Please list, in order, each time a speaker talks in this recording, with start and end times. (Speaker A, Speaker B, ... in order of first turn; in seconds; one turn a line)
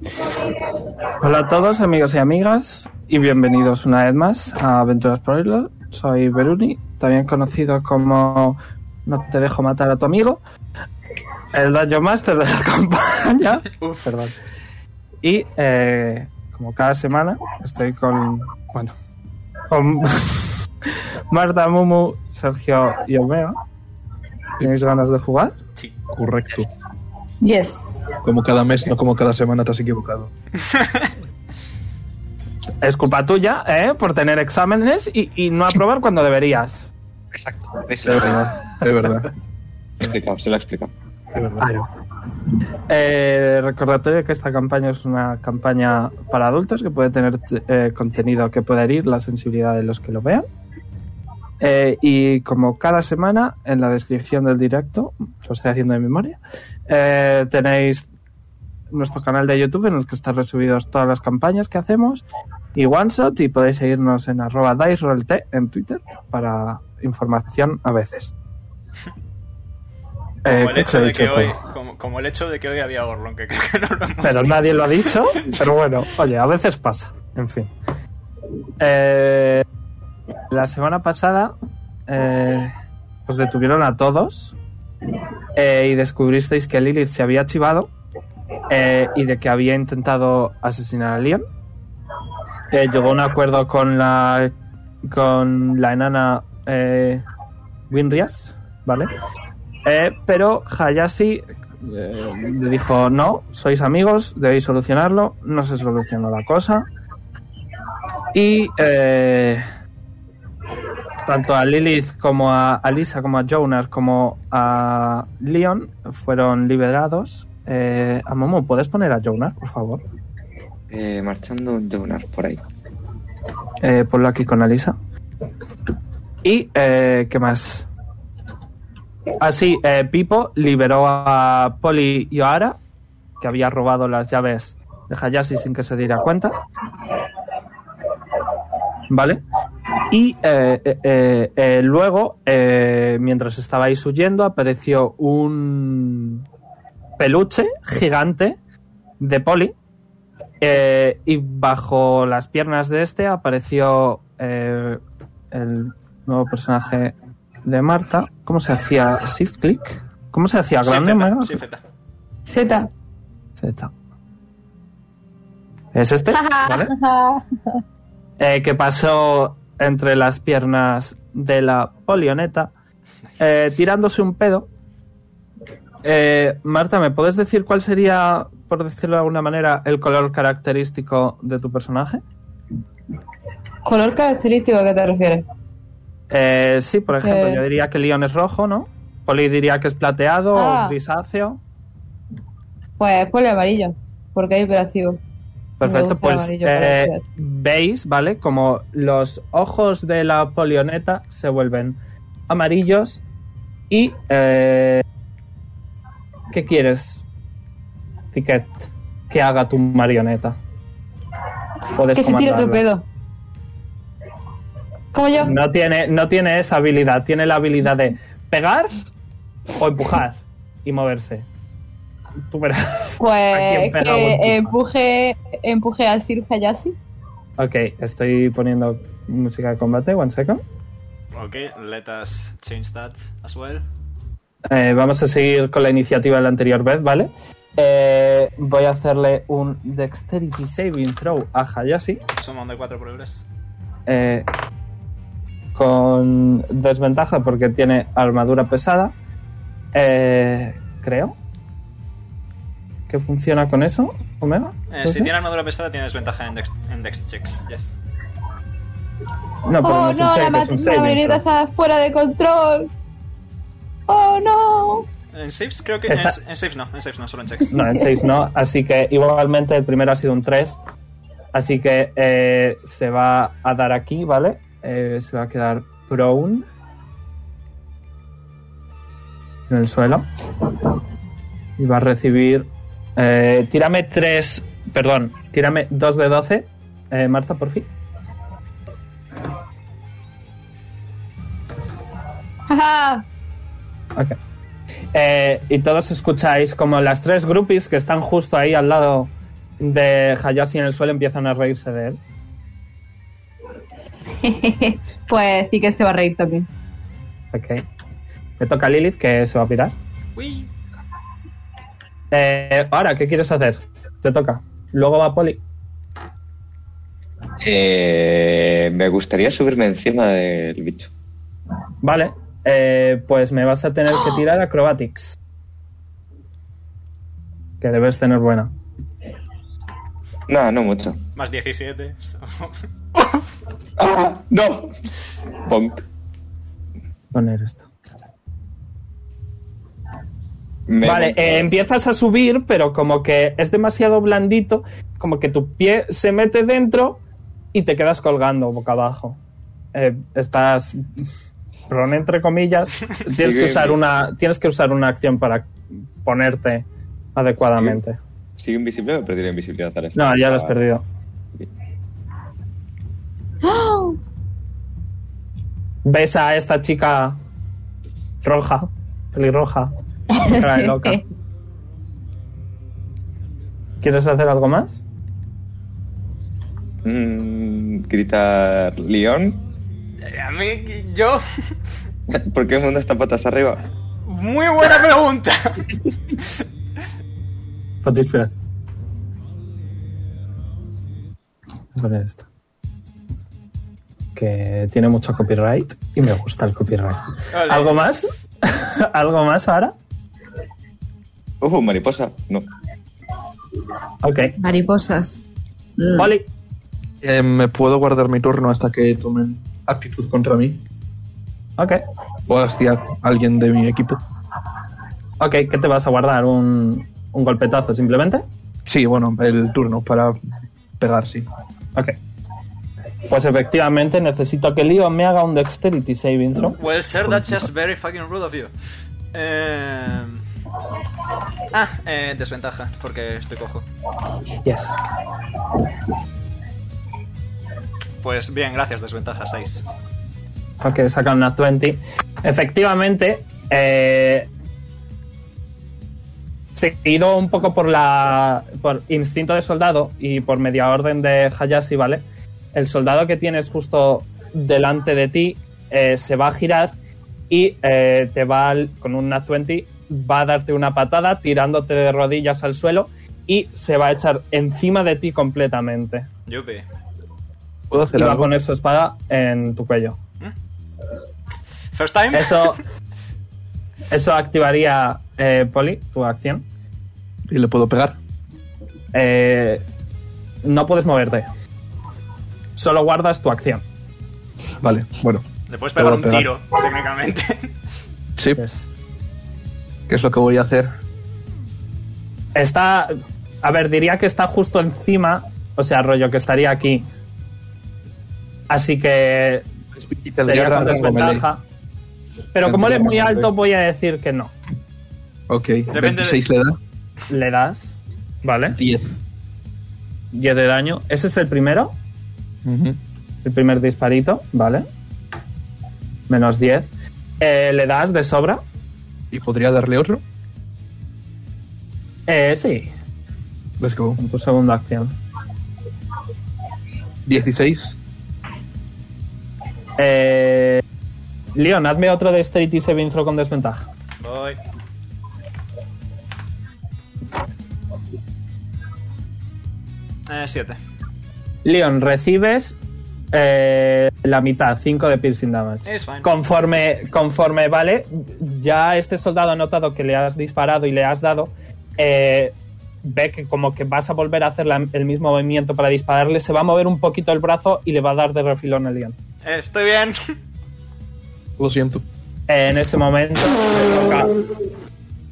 Speaker A: 1.2-10.4
Speaker A: 11.5-14.4
Speaker B: 13.8-14.1
Speaker A: 15.2-18.9
Speaker A: 19.7-23.6
Speaker A: 24.6-25.6
Speaker C: 26.1-26.7
Speaker D: 27.4-28.2
Speaker C: 28.2-30.3
Speaker B: 30.7-31.1
Speaker A: 32.8-36.9
Speaker E: 37.3-38.5
Speaker C: 38.0-39.3
Speaker E: 40.0-40.9
Speaker C: 41.3-41.7
Speaker A: 41.6-41.9
Speaker A: 42.9-50.5
Speaker A: 51.6-58.1
Speaker A: 58.9-62.2
Speaker A: 62.7-68.3
Speaker A: 70.5-71.4
Speaker B: 70.5-75.1
Speaker C: 70.7-71.5
Speaker A: 74.2-77.7
Speaker A: 78.8-79.6
Speaker A: 80.5-81.5
Speaker A: 82.1-82.7
Speaker A: 83.3-84.5
Speaker A: 85.5-87.9
Speaker A: 88.7-91.4
Speaker A: 92.7-97.2
Speaker A: 97.9-99.1
Speaker A: 99.8-106.8
Speaker A: 108.3-109.6
Speaker A: 111.2-120.0
Speaker E: 120.9-122.6
Speaker A: 123.8-125.0
Speaker A: 126.4-127.9
Speaker A: 129.4-132.8
Speaker A: 133.4-136.5
Speaker A: 139.1-139.4
Speaker A: 140.1-146.4
Speaker A: 147.2-148.6
Speaker A: 149.2-149.7
Speaker A: 150.6-155.0
Speaker A: 155.5-161.6
Speaker B: 160.8-161.8
Speaker D: 162.4-162.9
Speaker A: 163.6-163.9
Speaker A: 165.9-166.9
Speaker D: 166.4-167.4
Speaker A: 168.4-172.7
Speaker A: 173.4-174.7
Speaker A: 176.0-182.2
Speaker D: 183.8-185.4
Speaker A: 186.3-191.6
Speaker D: 187.2-187.6
Speaker D: 190.5-190.9
Speaker D: 193.0-195.2
Speaker A: 195.8-202.0
Speaker D: 195.8-197.2
Speaker A: 202.5-203.2
Speaker A: 203.9-205.0
Speaker A: 206.5-207.2
Speaker A: 208.3-210.6
Speaker A: 211.9-212.8
Speaker D: 212.1-213.0
Speaker D: 215.1-215.5
Speaker A: 215.4-218.9
Speaker A: 219.8-221.4
Speaker A: 222.5-224.8
Speaker D: 223.2-226.9
Speaker A: 227.6-230.6
Speaker B: 231.3-233.8
Speaker A: 234.7-242.2
Speaker B: 242.4-243.4
Speaker A: 244.1-244.5
Speaker A: 245.7-249.1
Speaker A: 249.9-251.3
Speaker A: 253.1-255.3
Speaker B: 254.9-258.0
Speaker A: 259.6-261.4
Speaker D: 259.8-262.9
Speaker D: 264.1-265.1
Speaker B: 265.3-267.7
Speaker A: 266.1-266.4
Speaker A: 267.7-270.8
Speaker A: 271.5-276.6
Speaker A: 279.7-280.3
Speaker A: 281.8-287.9
Speaker D: 292.7-293.2
Speaker A: 295.1-302.2
Speaker D: 304.4-306.7
Speaker A: 307.5-307.8
Speaker A: 308.6-309.9
Speaker B: 310.4-310.7
Speaker A: 312.3-315.6
Speaker E: 317.6-321.1
Speaker A: 322.0-325.4
Speaker A: 327.8-328.7
Speaker E: 330.5-331.2
Speaker B: 331.4-333.4
Speaker E: 334.0-334.9
Speaker E: 335.6-336.0
Speaker A: 337.3-337.9
Speaker E: 340.9-341.7
Speaker A: 341.0-347.2
Speaker A: 347.7-349.4
Speaker A: 349.9-351.0
Speaker A: 351.9-355.7
Speaker E: 353.2-354.0
Speaker A: 356.2-358.2
Speaker E: 358.6-360.7
Speaker A: 360.1-361.0
Speaker D: 363.6-364.2
Speaker A: 366.0-367.4
Speaker A: 368.4-371.2
Speaker D: 370.3-371.2
Speaker A: 374.0-375.0
Speaker E: 377.0-379.6
Speaker B: 380.2-381.4
Speaker E: 382.3-383.8
Speaker B: 384.2-386.0
Speaker A: 388.0-388.5
Speaker A: 391.9-392.4
Speaker A: 394.3-399.9
Speaker B: 397.5-398.0
Speaker E: 401.6-402.6
Speaker A: 404.2-404.6
Speaker D: 404.6-405.4
Speaker D: 406.0-406.3
Speaker A: 406.1-406.5
Speaker C: 407.2-410.8
Speaker C: 412.5-414.2
Speaker A: 415.4-418.4
Speaker C: 418.8-420.4
Speaker C: 421.0-421.5
Speaker A: 423.3-426.8
Speaker B: 426.8-428.7
Speaker C: 427.2-427.7
Speaker B: 429.3-430.4
Speaker B: 431.7-433.9
Speaker A: 434.6-434.9
Speaker B: 438.2-439.8
Speaker A: 440.8-444.5
Speaker A: 446.7-456.9
Speaker A: 457.5-466.3
Speaker B: 466.5-466.8
Speaker C: 467.9-468.5
Speaker A: 468.1-470.2
Speaker B: 471.9-472.7
Speaker A: 472.3-472.8
Speaker A: 474.1-476.6
Speaker C: 477.5-478.2
Speaker A: 479.1-479.8
Speaker A: 480.6-481.5
Speaker A: 482.8-483.8
Speaker C: 484.8-486.5
Speaker B: 485.7-487.7
Speaker A: 488.6-488.9
Speaker C: 490.1-490.9
Speaker A: 492.5-497.1
Speaker A: 498.7-499.7
Speaker C: 499.9-501.4
Speaker A: 500.4-501.6
Speaker A: 502.5-504.5
Speaker C: 502.5-503.5
Speaker C: 505.5-506.8
Speaker B: 505.9-506.4
Speaker A: 507.3-508.8
Speaker C: 508.7-509.2
Speaker A: 510.3-511.9
Speaker C: 512.6-513.0
Speaker A: 513.4-514.9
Speaker A: 516.3-516.9
Speaker A: 517.4-518.6
Speaker C: 519.3-520.2
Speaker A: 522.3-522.9
Speaker C: 523.8-524.2
Speaker A: 524.2-525.1
Speaker C: 527.2-528.0
Speaker A: 530.0-530.8
Speaker A: 531.5-533.9
Speaker B: 534.2-534.6
Speaker B: 540.3-540.8
Speaker A: 541.6-542.8
Speaker A: 543.3-559.2
Speaker B: 545.9-546.3
Speaker B: 559.4-560.2
Speaker C: 561.6-562.0
Speaker A: 562.5-564.4